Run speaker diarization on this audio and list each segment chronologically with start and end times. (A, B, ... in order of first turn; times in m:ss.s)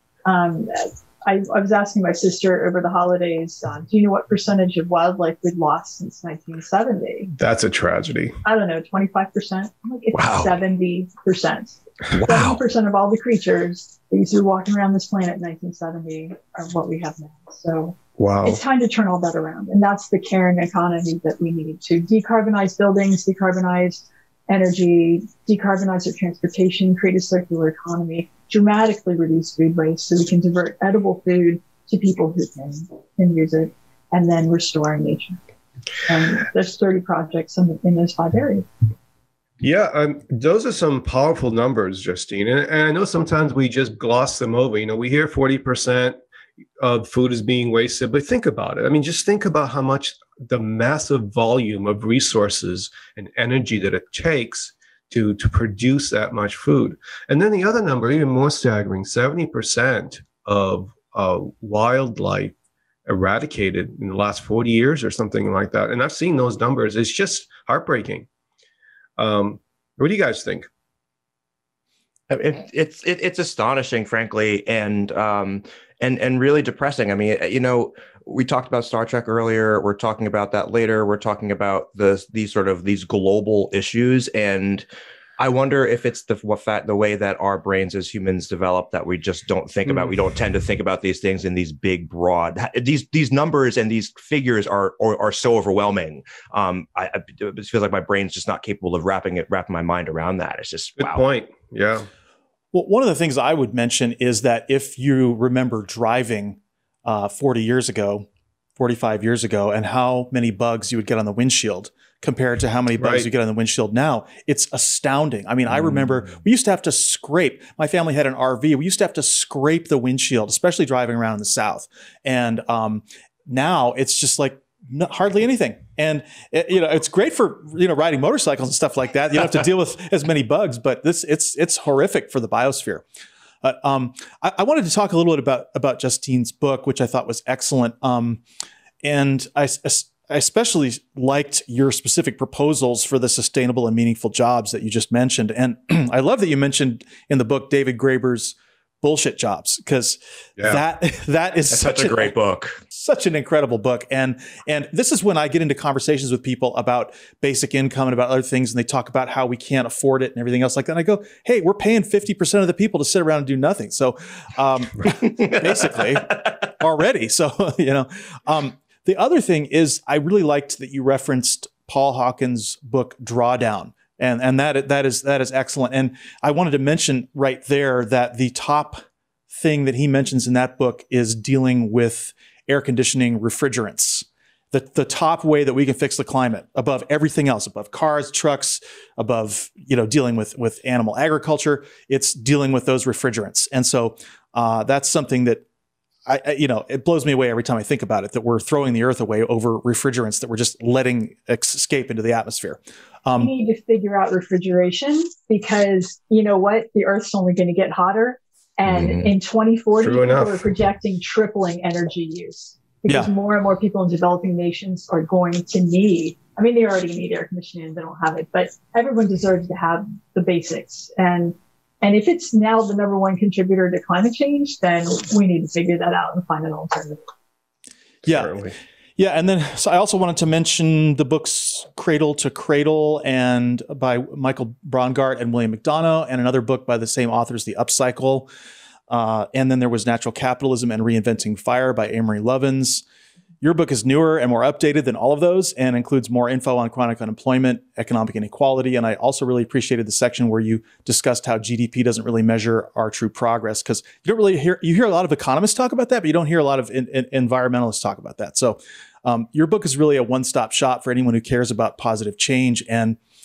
0:00.2-0:07.3 A
0:07.3-0:08.4 B
0:08.4-0:35.4 A
0:10.1-0:10.5 C
0:12.1-0:12.6 C
0:18.2-0:18.6 B
0:36.0-0:38.7 A
0:39.6-0:46.2 B
0:46.8-1:02.5 B
1:03.0-1:08.3 B
1:09.2-1:10.7 B
1:12.3-1:24.8 C
1:25.4-1:41.2 C
1:41.0-1:42.1 B
1:42.7-1:48.3 D
1:48.8-2:13.0 D
1:53.0-1:53.3 B
2:13.6-2:18.4 D
2:19.0-2:32.3 D
2:30.6-2:30.8 B
2:31.7-2:32.8 C
2:32.9-3:15.6 D
3:16.3-3:23.5 D
3:23.4-3:47.2 A
3:28.9-3:29.3 C
3:30.0-3:30.7 B
3:48.2-3:48.6 D
3:48.2-3:48.8 B
3:49.2-3:58.5 D
3:59.1-4:03.0 D
4:03.6-4:23.2 D